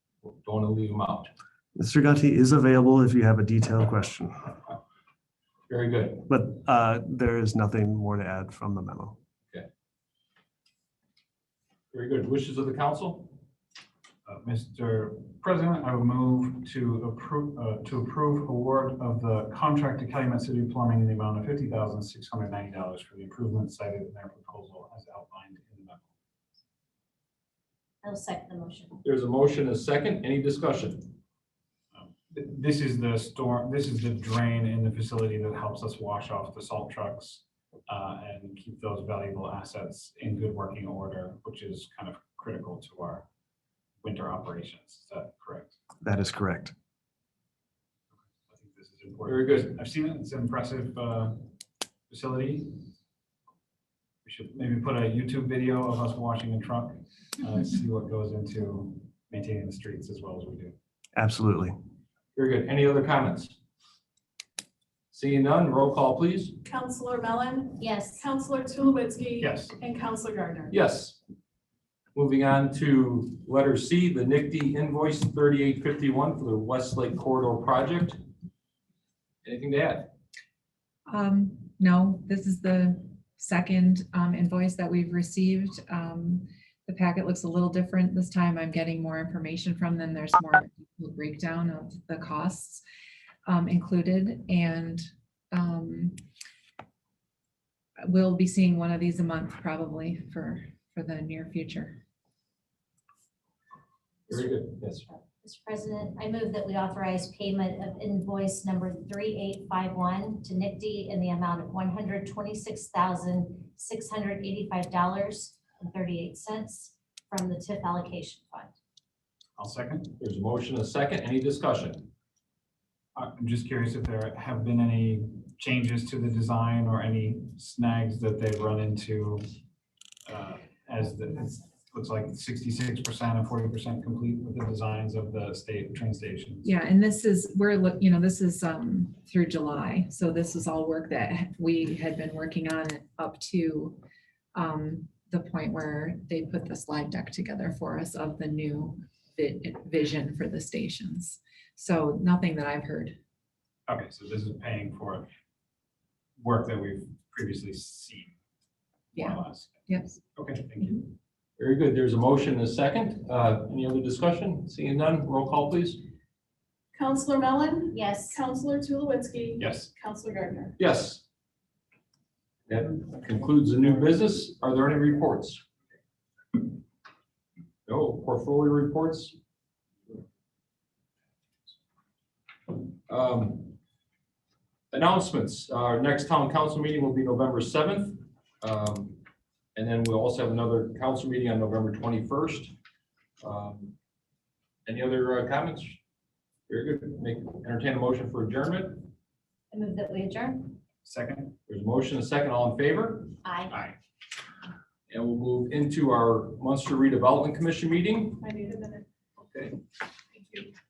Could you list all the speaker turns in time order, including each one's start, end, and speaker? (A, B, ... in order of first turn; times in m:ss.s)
0:00.3-0:01.3 A
0:01.8-0:04.6 B
0:05.7-0:06.3 A
0:06.3-0:09.2 B
0:11.9-0:13.4 A
0:14.3-0:26.1 C
0:28.0-0:29.0 D
0:29.0-0:31.2 A
0:31.9-0:43.2 C
0:44.0-0:45.7 C
0:46.0-0:46.7 B
0:48.5-0:51.5 C
0:49.3-0:49.7 A
0:52.1-0:52.9 C
0:54.2-1:00.8 C
1:01.2-1:01.8 B
1:02.4-1:03.6 A
1:05.1-1:06.6 A
1:06.6-1:10.7 E
1:07.8-1:08.3 D
1:09.4-1:09.7 C
1:10.7-1:11.2 A
1:12.2-1:18.2 A
1:19.4-1:20.1 A
1:21.1-1:32.8 F
1:33.5-1:36.2 F
1:38.0-1:42.0 F
1:44.3-1:45.1 A
1:45.1-1:58.7 D
1:59.6-2:00.1 C
2:00.2-2:02.1 A
2:03.2-2:09.4 C
2:10.3-2:16.7 C
2:16.6-2:24.0 F
2:24.5-2:33.2 F
2:33.9-2:35.3 C
2:36.4-2:38.3 C
2:39.2-2:39.8 C
2:39.2-2:40.2 F
2:40.4-2:41.1 C
2:41.6-2:46.0 A
2:46.9-2:50.8 E
2:47.9-2:48.4 D
2:49.6-2:49.9 C
2:50.8-2:51.2 A
2:52.7-2:55.6 A
2:57.9-2:59.4 A
3:03.1-3:03.8 A
3:04.9-3:09.2 A
3:09.8-3:12.7 A
3:13.4-3:14.0 A
3:14.9-3:16.0 A
3:16.7-3:19.1 A
3:19.7-3:20.8 D
3:21.0-3:21.6 C
3:21.7-3:23.4 A
3:23.4-3:23.7 D
3:25.1-3:28.4 A
3:28.4-3:29.1 E
3:29.4-3:29.8 A
3:30.3-3:30.7 E